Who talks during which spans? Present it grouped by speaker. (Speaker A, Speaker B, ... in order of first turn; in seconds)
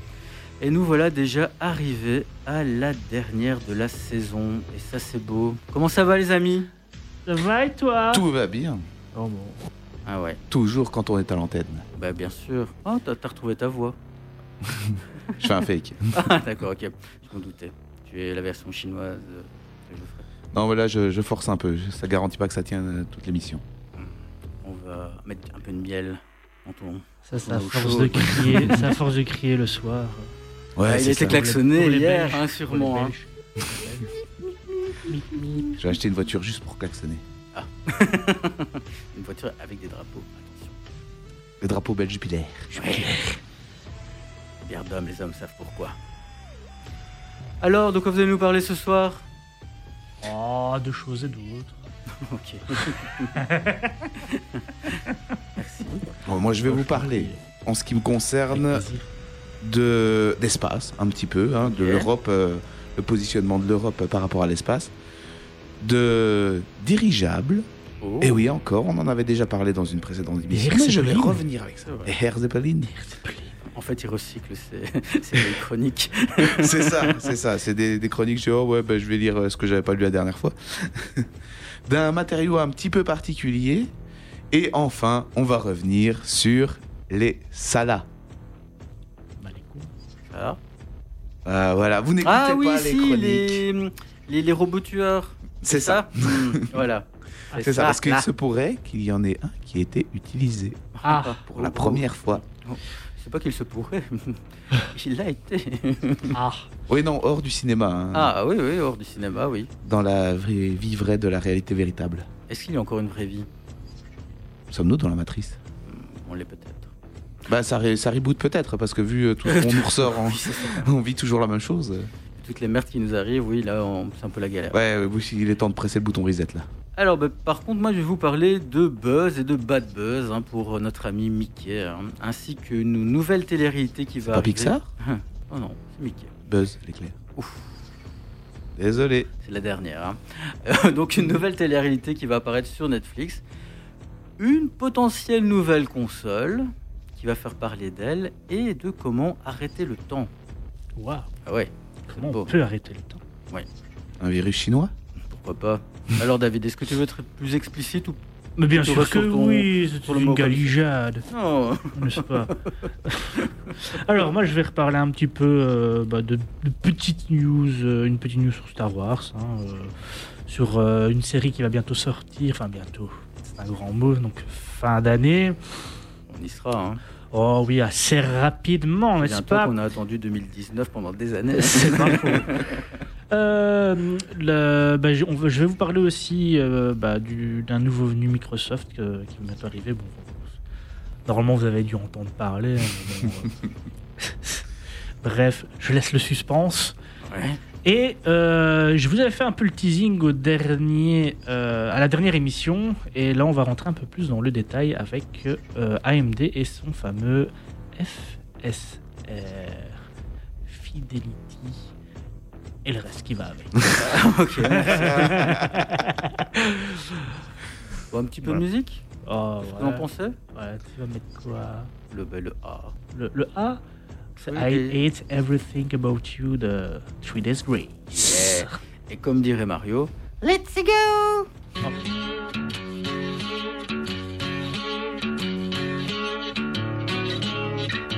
Speaker A: 0.6-6.7, 10.1-10.4, 11.9-13.9, 16.1-20.3, 23.9-28.9, 30.9-33.1, 37.5-40.8, 42.7-43.1, 44.6-46.0, 47.6-49.2, 52.2-53.4, 54.3-55.0, 55.5-56.1, 61.6-62.1, 68.0-68.4, 71.8-72.1, 73.7-77.2, 90.3-90.6, 92.2-98.3, 100.9-106.4, 108.1-109.7, 112.5-113.5, 115.8-116.9, 119.4-120.9, 122.4-124.8, 127.0-136.3, 137.3-137.7, 139.4-143.4, 144.4-150.3, 151.4-152.5, 155.2-158.2, 158.7-162.5, 163.3-163.7, 176.3-177.0, 179.2-182.8, 197.3-197.6, 213.9-215.6, 218.1-219.1, 219.6-220.4, 222.1-222.9, 224.4-225.0, 228.1-231.4
Speaker B: 7.2-8.2, 9.1-9.6, 27.3-30.3, 30.9-34.0, 35.0-35.7, 42.9-43.4, 50.2-51.8, 53.4-54.1, 56.6-57.4, 58.5-59.0, 70.5-71.4, 72.9-73.5, 89.4-89.9, 97.5-97.8, 101.0-101.4, 106.3-106.7, 151.0-151.3, 152.1-153.2, 158.6-161.3, 161.9-169.9, 170.5-175.6, 177.3-179.7, 181.6-182.6, 183.3-190.5, 191.2-193.6, 194.2-194.6, 195.2-196.9, 197.8-210.0, 210.7-211.9, 212.8-213.9, 214.7-217.3, 219.2-221.9, 223.1-223.8, 224.4-228.8
Speaker C: 8.1-8.8, 10.5-11.8, 14.6-16.2, 20.5-23.6, 30.8-31.5, 35.8-37.2, 41.6-42.9, 56.2-58.9, 59.6-64.9, 65.8-67.7, 68.2-72.9, 76.4-81.3, 81.8-83.9, 84.5-88.1, 91.4-93.6, 95.6-96.7, 97.6-100.8, 101.5-102.4, 106.9-108.3, 109.8-112.3, 114.7-115.6, 117.5-122.1, 124.7-126.7, 134.2-134.8, 136.4-137.2, 138.8-139.3, 154.2-154.9, 214.9-215.9